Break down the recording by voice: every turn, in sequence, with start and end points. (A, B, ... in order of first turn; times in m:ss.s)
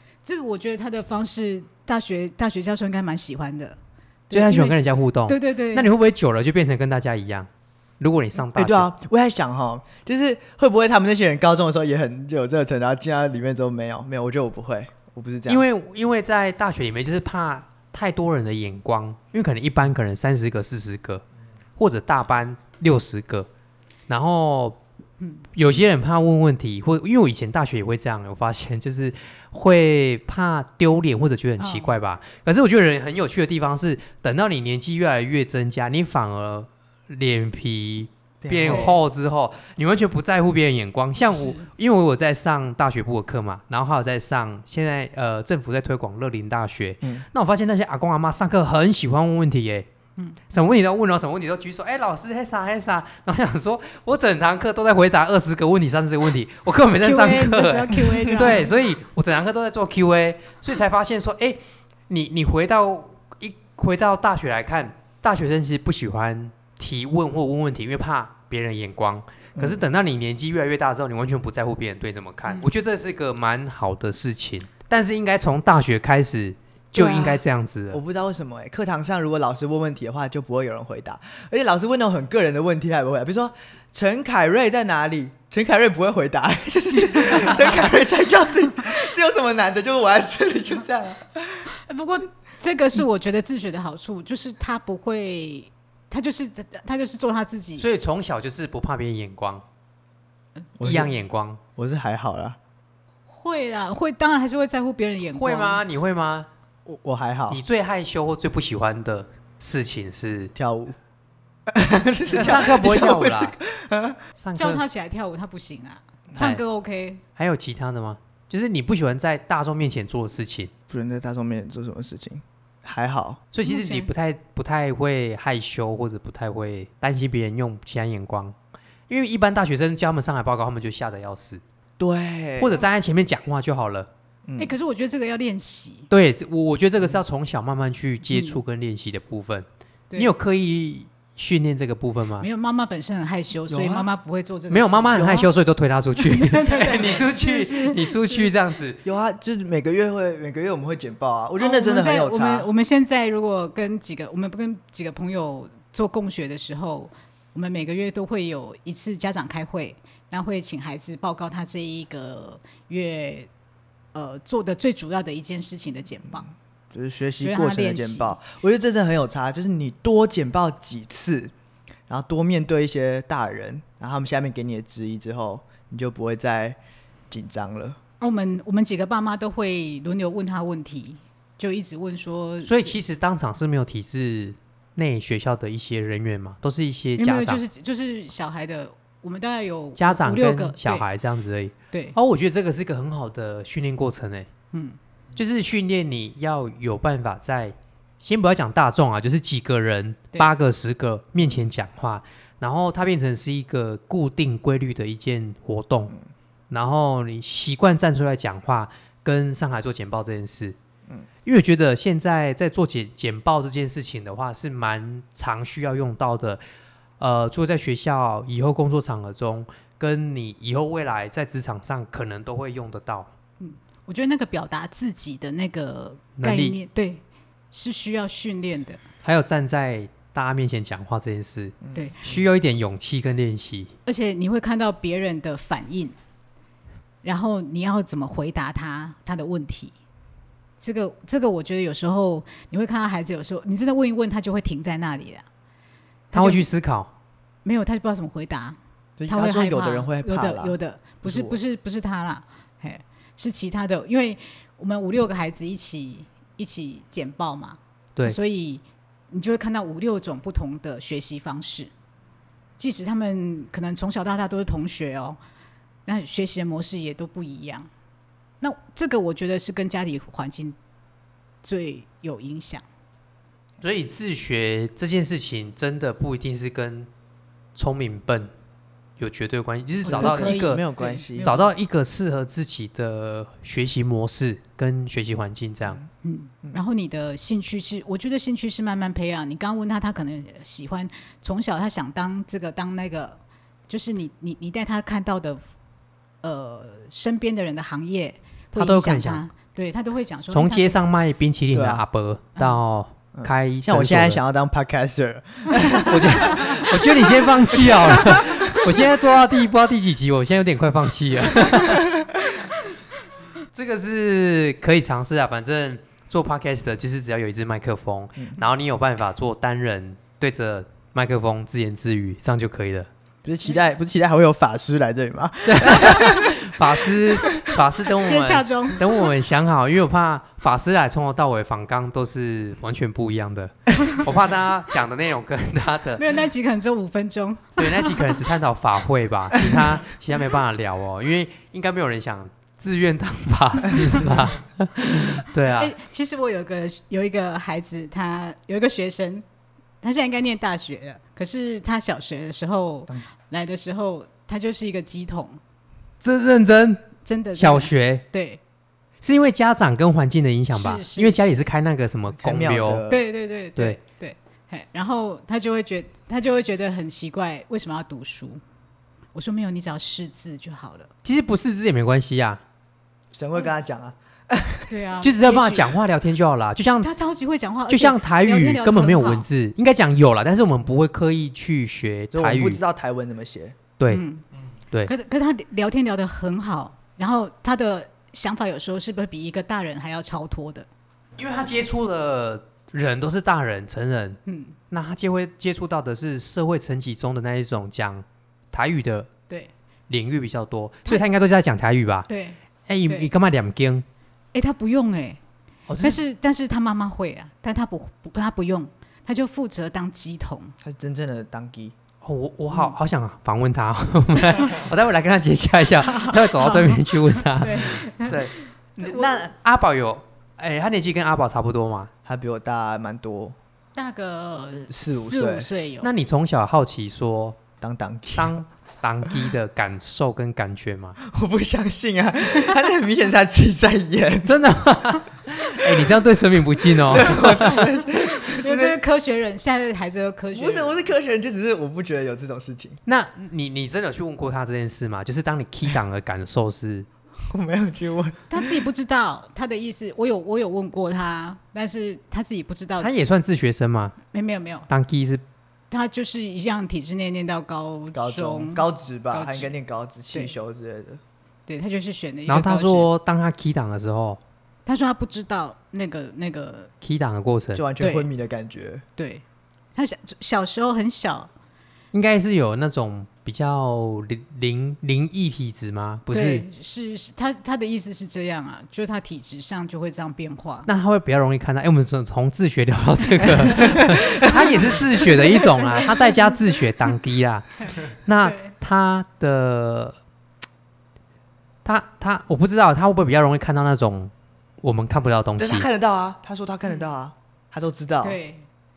0:00.2-0:03.8 A
0:04.3-0:05.9 A
0:04.3-0:07.5 B
0:08.0-0:08.9 B
0:08.6-0:15.6 C
0:15.5-0:21.2 B
0:21.8-0:23.5 B
0:24.1-0:24.8 B
0:25.2-0:25.4 A
0:25.6-0:49.9 B
0:31.6-0:32.0 A
0:38.4-0:39.0 C
0:41.3-0:41.7 A
0:50.5-1:18.0 B
0:57.0-0:58.7 A
1:09.6-1:09.8 C
1:16.9-1:31.8 C
1:31.7-1:37.9 A
1:37.8-1:39.6 B
1:40.8-1:41.1 C
1:40.8-1:41.6 B
1:41.8-1:42.6 C
1:43.3-1:45.8 A
1:45.3-1:46.5 B
1:46.9-1:47.6 C
1:47.5-1:50.5 B
1:50.6-1:51.0 C
1:51.7-1:54.2 C
1:52.3-1:53.6 B
1:54.4-1:54.8 B
1:54.6-1:57.2 A
1:56.4-1:56.6 B
1:57.4-2:00.7 B
2:00.9-2:03.4 C
2:03.5-2:08.6 B
2:03.6-2:04.1 A
2:09.1-2:11.6 B
2:12.0-2:12.8 C
2:12.6-2:14.1 B
2:14.5-2:14.8 C
2:14.6-2:16.1 A
2:16.1-2:19.7 B
2:18.3-2:18.6 A
2:20.2-2:22.5 B
2:22.4-2:25.3 A
2:23.7-2:24.1 C
2:24.7-2:29.0 B
2:25.1-2:25.5 C
2:26.2-2:28.5 A
2:29.0-2:32.7 C
2:31.6-2:43.5 A
2:44.1-2:46.5 A
2:46.3-2:51.5 C
2:47.4-2:48.4 A
2:52.1-2:56.8 C
2:57.3-2:58.0 C
2:58.2-3:03.0 A
3:02.6-3:07.6 B
3:07.2-3:11.1 A
3:10.0-3:14.5 B
3:14.7-3:15.0 A
3:15.4-3:26.2 B
3:26.7-3:30.8 B
3:31.4-3:36.6 B
3:37.2-3:43.3 B
3:43.6-3:49.0 A
3:46.4-3:46.8 B
3:49.2-3:53.9 B
3:51.8-3:52.4 C
3:54.1-3:56.2 A
3:57.2-4:00.0 A
4:00.8-4:05.5 A
4:06.3-4:06.7 A
4:06.3-4:07.1 B
4:07.6-4:21.9 A
4:09.2-4:11.6 C
4:22.8-4:25.4 A
4:26.1-4:27.9 A
4:28.6-4:30.8 A
4:31.6-4:32.8 A
4:33.8-4:37.1 B
4:37.8-4:38.5 B
4:39.2-4:40.8 B
4:40.0-4:41.5 C
4:40.0-4:41.7 A
4:41.4-4:46.0 B
4:46.2-4:55.6 A
4:56.4-5:01.0 A
4:58.7-4:59.5 B
5:00.5-5:04.4 B
5:01.7-5:02.0 C
5:03.3-5:09.0 C
5:06.0-5:12.1 B
5:11.7-5:12.4 C
5:13.7-5:23.1 B
5:18.4-5:18.6 C
5:23.4-5:26.7 C
5:25.7-5:36.3 B
5:27.4-5:27.8 C
5:28.2-5:29.2 A
5:36.2-5:38.4 A
5:37.8-5:45.9 B
5:43.9-5:44.3 A
5:45.8-5:49.4 A
5:50.0-5:55.6 A
5:56.2-5:58.2 B
5:57.2-5:58.6 A
5:59.2-6:03.0 B
6:00.7-6:01.6 A
6:02.3-6:03.3 C
6:03.1-6:08.6 A
6:09.3-6:11.1 A
6:11.2-6:12.6 B
6:13.3-6:15.1 C
6:14.9-6:16.0 A
6:15.2-6:17.1 B
6:16.8-6:19.5 A
6:17.9-6:22.8 B
6:22.3-6:23.8 C
6:24.0-6:24.2 B
6:24.1-6:24.4 A
6:25.1-6:30.9 A
6:31.4-6:34.4 B
6:34.5-6:34.8 A
6:34.9-6:39.3 B
6:40.1-6:42.3 B
6:42.3-6:43.3 A
6:42.9-6:44.0 B
6:44.5-6:45.4 A
6:45.9-6:46.2 B
6:46.0-6:50.8 A
6:50.8-6:52.0 C
6:52.2-7:02.1 B
6:52.7-6:53.0 A
6:56.0-6:59.3 A
7:02.2-7:03.6 C
7:04.0-7:06.1 A
7:04.9-7:05.7 C
7:06.0-7:07.6 B
7:07.8-7:08.6 C
7:08.4-7:11.2 B
7:11.2-7:14.6 C
7:14.4-7:17.9 B
7:16.9-7:19.0 C
7:18.5-7:21.0 A
7:20.5-7:23.0 C
7:23.1-7:27.1 B
7:27.4-7:28.9 C
7:28.5-7:33.1 A
7:33.0-7:34.2 B
7:34.3-7:34.9 A
7:34.9-7:35.4 B
7:35.9-7:39.7 A
7:38.1-7:41.2 C
7:41.7-7:43.1 A
7:42.5-7:44.4 B
7:44.9-7:46.9 A
7:47.0-7:47.8 B
7:47.8-7:49.0 C
7:48.0-7:48.3 A
7:49.2-7:49.4 A
7:50.0-7:51.5 A
7:52.1-7:56.7 B
7:56.3-8:00.9 A
8:00.9-8:10.2 B
8:04.2-8:06.8 A
8:08.4-8:08.7 A
8:11.8-8:15.9 B
8:15.6-8:18.4 C
8:18.2-8:18.7 A